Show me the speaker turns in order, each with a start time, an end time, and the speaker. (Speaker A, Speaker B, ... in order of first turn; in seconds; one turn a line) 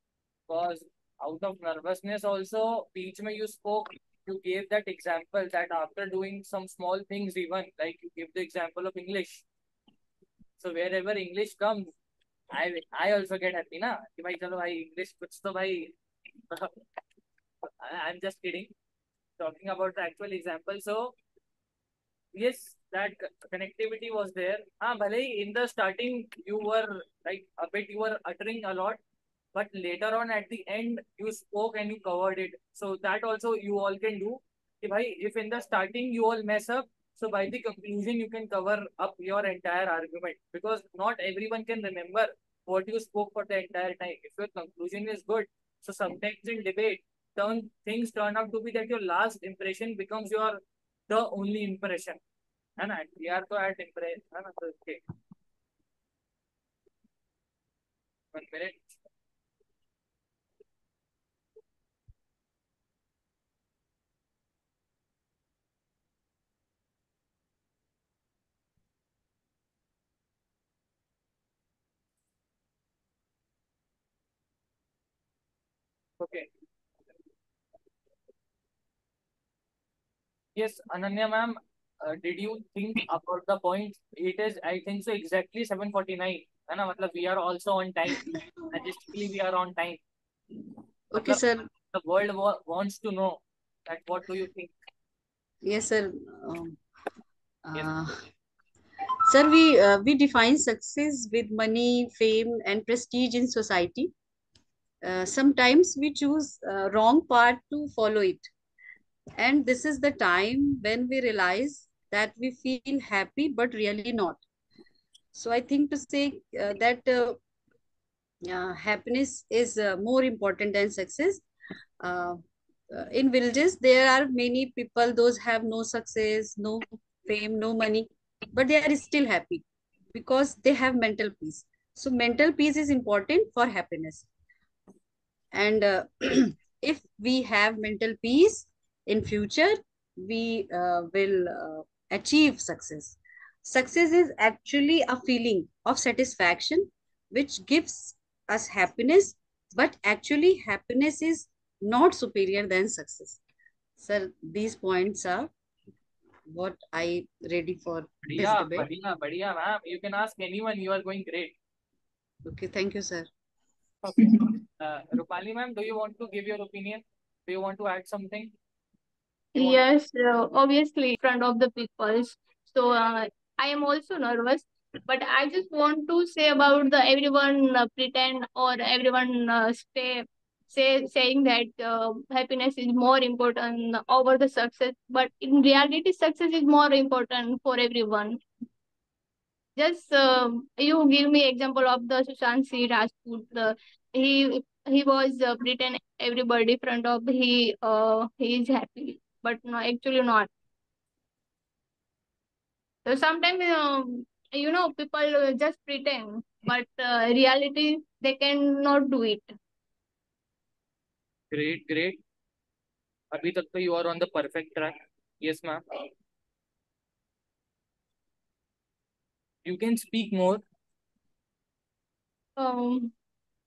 Speaker A: 0.5-9.4
Speaker A: 10.6-11.9
Speaker A: 12.5-15.9
Speaker A: 17.8-18.7
Speaker A: 19.4-21.1
Speaker A: 22.3-29.0
Speaker A: 29.5-52.2
Speaker A: 52.8-55.0
Speaker A: 58.3-58.9
Speaker A: 76.2-76.5
Speaker A: 80.5-90.0
Speaker B: 88.2-88.4
Speaker B: 91.1-91.7
Speaker A: 91.2-94.7
Speaker B: 95.6-96.8
Speaker B: 97.6-98.2
Speaker B: 99.2-104.1
Speaker B: 105.0-108.5
Speaker B: 109.3-114.4
Speaker B: 115.3-117.4
Speaker B: 118.5-121.4
Speaker B: 122.0-134.3
Speaker B: 135.5-153.4
Speaker B: 154.0-155.5
Speaker B: 156.4-158.9
Speaker A: 158.2-161.5
Speaker B: 162.4-163.3
Speaker A: 164.0-168.5
Speaker C: 169.6-188.4
Speaker C: 189.8-200.5
Speaker C: 203.0-209.5
Speaker A: 211.5-212.2
Speaker A: 213.3-216.1
Speaker A: 219.6-220.6
Speaker C: 222.6-223.1